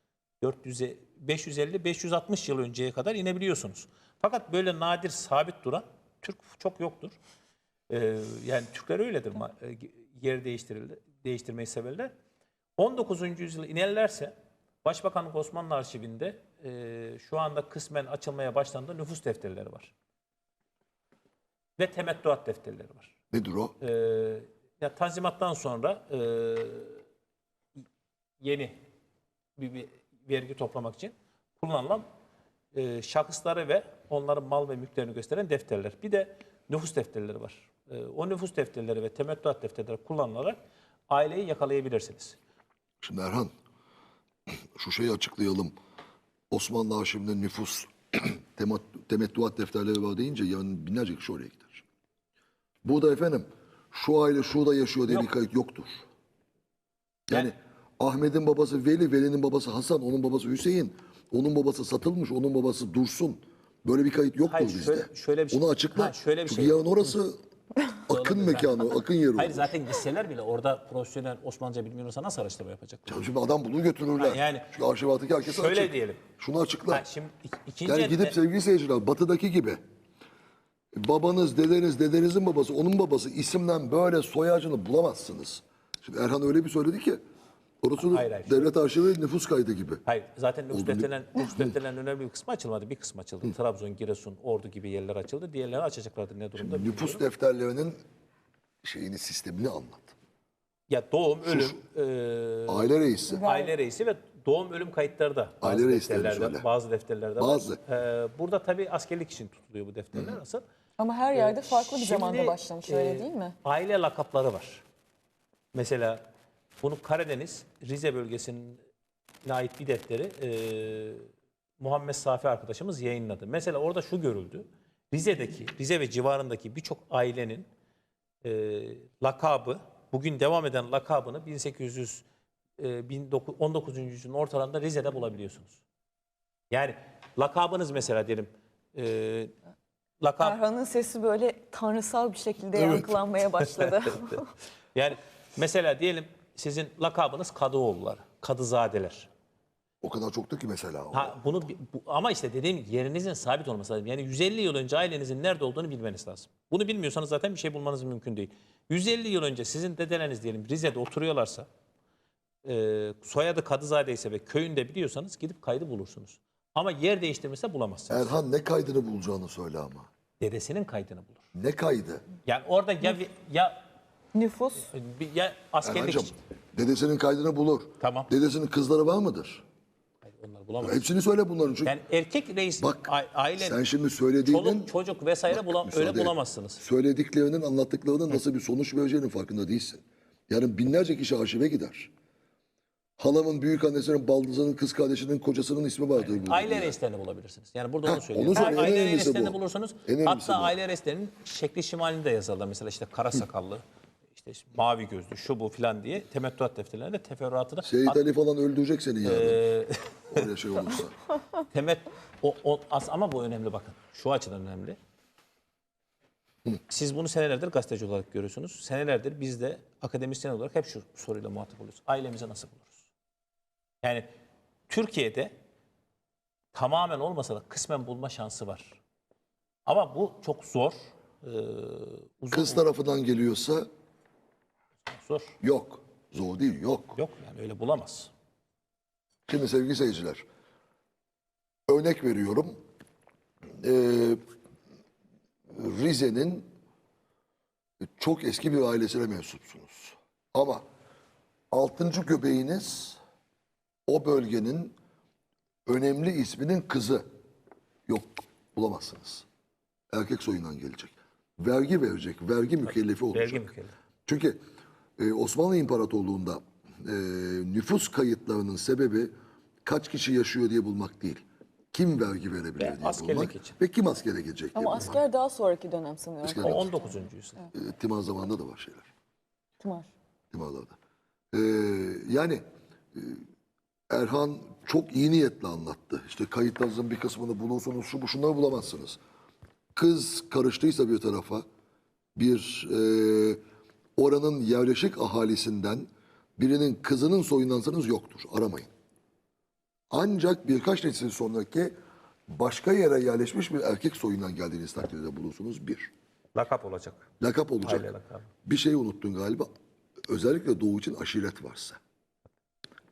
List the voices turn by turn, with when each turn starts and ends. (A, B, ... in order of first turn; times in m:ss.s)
0:00.4-0:07.2 A
0:07.9-0:12.1 A
0:12.8-0:19.9 A
0:21.8-0:23.1 A
0:23.3-0:23.8 B
0:23.8-0:27.0 A
0:28.4-0:28.8 A
0:29.6-0:32.0 A
0:32.7-0:42.4 A
0:43.0-0:43.5 B
0:44.8-0:45.8 B
0:46.5-0:51.8 B
0:52.8-0:56.1 B
0:57.3-1:07.4 B
1:04.4-1:07.2 A
1:08.1-1:09.7 B
1:08.1-1:13.3 A
1:13.1-1:17.0 B
1:14.2-1:14.7 A
1:15.4-1:16.2 A
1:16.9-1:18.4 A
1:17.8-1:19.8 B
1:21.0-1:27.2 B
1:27.8-1:30.0 B
1:28.0-1:28.7 A
1:30.1-1:37.3 A
1:30.7-1:31.8 B
1:36.6-1:38.0 B
1:38.8-1:40.2 B
1:40.9-1:50.6 A
1:41.5-1:41.8 B
1:42.7-1:43.4 B
1:43.3-1:43.7 C
1:45.6-1:46.6 B
1:47.4-1:47.8 B
1:51.0-1:53.6 C
1:51.3-1:54.8 A
1:55.7-1:56.2 A
1:56.8-1:58.8 A
1:59.4-2:01.3 A
2:01.8-2:07.7 A
2:08.4-2:12.2 A
2:12.8-2:15.8 A
2:16.7-2:19.5 A
2:20.2-2:20.6 A
2:20.4-2:24.5 C
2:22.8-2:24.4 A
2:25.0-2:29.3 A
2:30.0-2:31.4 B
2:31.1-2:41.7 A
2:42.6-2:48.4 A
2:48.1-2:50.1 B
2:50.4-2:51.4 A
2:51.5-2:52.2 B
2:52.5-2:53.8 A
2:54.3-2:54.9 C
2:54.8-2:56.4 A
2:55.8-2:59.6 B
2:58.0-2:58.3 A
3:00.3-3:01.1 A
3:00.8-3:02.0 B
3:01.8-3:03.8 A
3:02.8-3:04.9 B
3:04.4-3:06.8 A
3:05.5-3:12.1 B
3:13.2-3:17.0 B
3:16.2-3:23.8 A
3:18.0-3:20.8 B
3:24.4-3:28.2 A
3:27.8-3:29.6 B
3:29.2-3:30.5 A
3:30.3-3:31.2 B
3:31.7-3:35.0 A
3:36.9-3:43.1 A
3:44.0-3:44.3 A
3:44.9-3:45.5 A
3:46.7-3:49.0 A
3:49.9-3:52.8 A
3:52.5-3:53.9 B
3:55.1-3:55.6 A
3:55.6-3:57.2 B
3:57.2-3:58.3 A
3:59.5-4:00.4 B
4:01.9-4:02.7 B
4:03.8-4:04.4 B
4:05.7-4:06.7 B
4:08.0-4:10.8 B
4:11.7-4:13.2 B
4:14.1-4:15.0 B
4:15.9-4:17.2 B
4:18.1-4:19.5 B
4:20.1-4:23.7 B
4:22.9-4:23.9 A
4:24.3-4:24.6 B
4:25.2-4:29.3 B
4:29.8-4:35.2 B
4:32.8-4:33.8 A
4:34.8-4:37.1 C
4:36.4-4:36.9 B
4:36.6-4:37.7 A
4:37.7-4:39.1 B
4:39.8-4:40.1 C
4:40.5-4:41.0 B
4:41.5-4:42.6 B
4:43.2-4:43.4 B
4:44.1-4:49.2 B
4:50.0-4:51.6 B
4:52.4-4:53.6 B
4:54.2-4:58.9 B
5:00.1-5:02.0 B
5:02.5-5:06.1 B
5:06.6-5:08.5 A
5:07.4-5:08.1 B
5:08.6-5:09.7 B
5:10.3-5:12.0 B